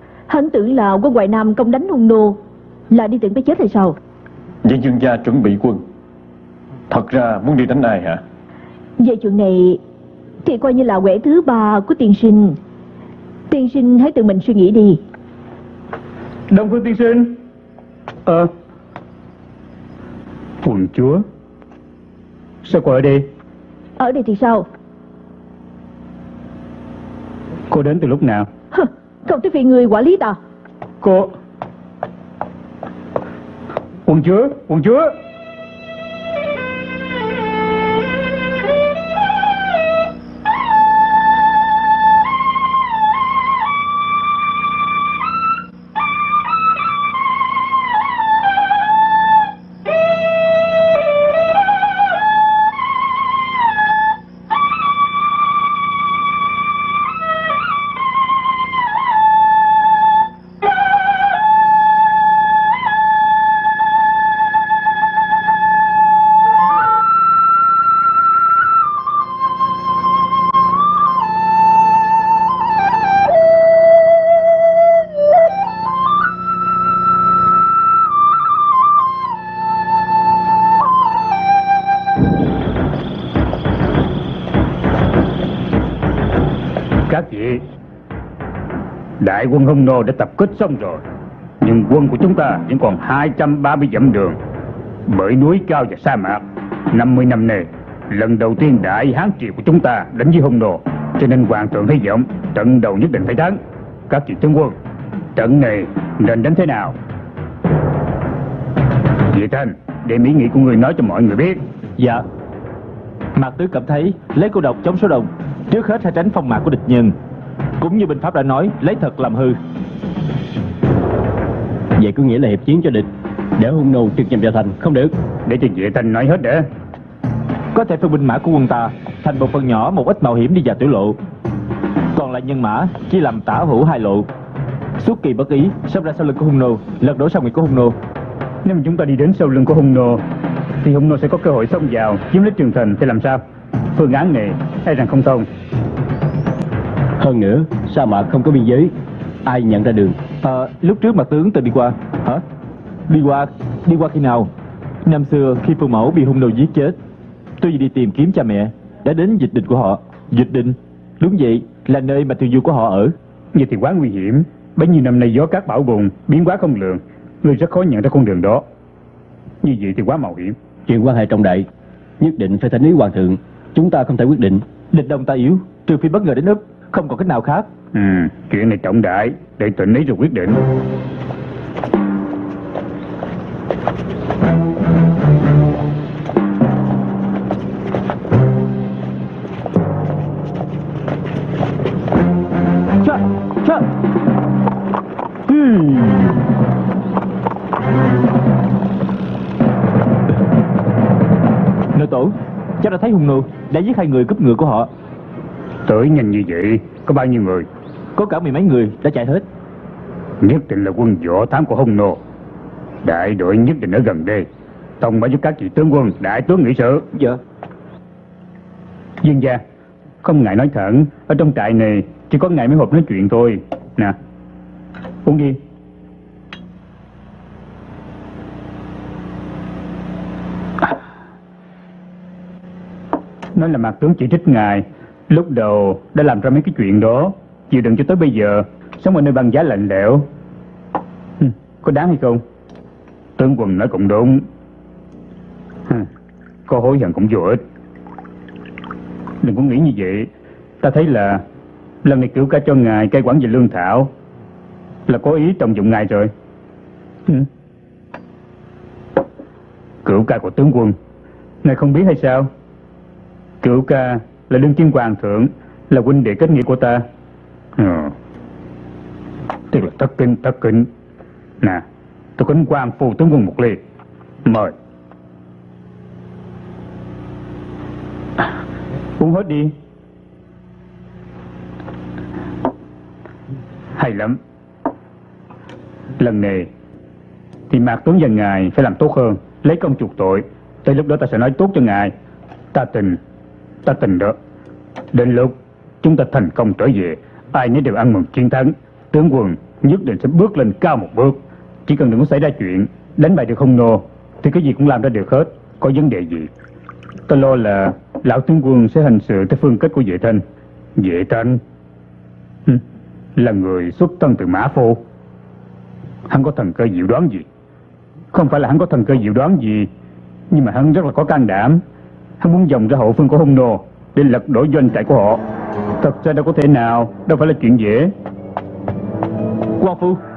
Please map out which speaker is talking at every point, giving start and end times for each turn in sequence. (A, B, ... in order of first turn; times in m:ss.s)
0:00.3-0:04.0 A
0:04.6-0:05.8 B
0:06.9-0:08.2 B
0:09.0-0:09.8 A
0:10.4-0:12.6 A
0:13.5-0:15.0 A
0:16.5-0:17.4 C
0:18.3-0:18.5 C
0:20.6-0:21.2 C
0:22.6-0:23.3 C
0:24.0-0:24.7 A
0:27.7-0:28.5 C
0:28.7-0:30.4 A
0:31.0-0:31.4 C
0:34.1-0:35.2 C
1:27.1-1:27.6 C
1:29.2-1:31.0 C
1:31.6-1:34.4 C
1:35.1-1:44.8 C
1:45.4-1:47.0 C
1:49.3-1:51.6 C
1:52.0-1:52.2 D
1:53.4-1:57.2 D
1:57.8-1:59.6 D
2:02.0-2:05.1 E
2:05.5-2:06.7 C
2:07.7-2:11.2 D
2:12.1-2:14.3 D
2:15.0-2:18.0 D
2:18.6-2:20.2 C
2:20.8-2:23.4 C
2:23.9-2:25.5 C
2:27.2-2:28.9 E
2:29.4-2:30.2 E
2:30.4-2:32.4 D
2:33.1-2:34.5 D
2:35.0-2:37.0 D
2:37.6-2:43.2 D
2:43.5-2:48.6 C
2:49.6-2:50.6 C
2:50.9-2:51.7 E
2:52.2-2:54.7 E
2:54.9-2:57.7 D
2:57.9-3:00.6 C
3:13.0-3:13.9 D
3:15.5-3:16.3 D
3:21.9-3:24.9 D
3:25.9-3:27.7 C
3:28.2-3:29.4 D
3:30.4-3:32.2 C
3:33.0-3:34.5 C
3:35.0-3:37.1 C
3:37.1-3:37.4 D
3:39.2-3:39.6 C
3:40.2-3:44.2 C
3:45.2-3:45.6 C
3:53.6-4:00.3 C
4:01.4-4:02.4 C
4:03.4-4:04.5 C
4:06.7-4:07.6 C
4:09.4-4:10.3 C
4:10.8-4:11.4 C
4:12.0-4:14.1 C
4:15.1-4:16.3 C
4:20.0-4:21.0 C
4:21.6-4:22.5 C
4:23.6-4:27.0 C
4:27.8-4:28.1 C
4:29.7-4:30.9 C
4:32.4-4:33.8 C
4:34.4-4:34.7 C
4:39.2-4:39.7 C
4:44.0-4:44.4 C
4:46.2-4:46.7 C
4:47.7-4:52.1 C
4:52.7-4:53.2 C
4:53.8-4:54.4 C
4:55.1-5:06.5 C
5:07.3-5:10.4 C
5:11.0-5:11.6 C
5:13.4-5:15.0 C
5:16.3-5:17.5 C
5:18.3-5:19.9 C
5:20.5-5:21.8 C
5:22.4-5:25.4 C
5:26.0-5:28.1 C
5:29.8-5:30.2 D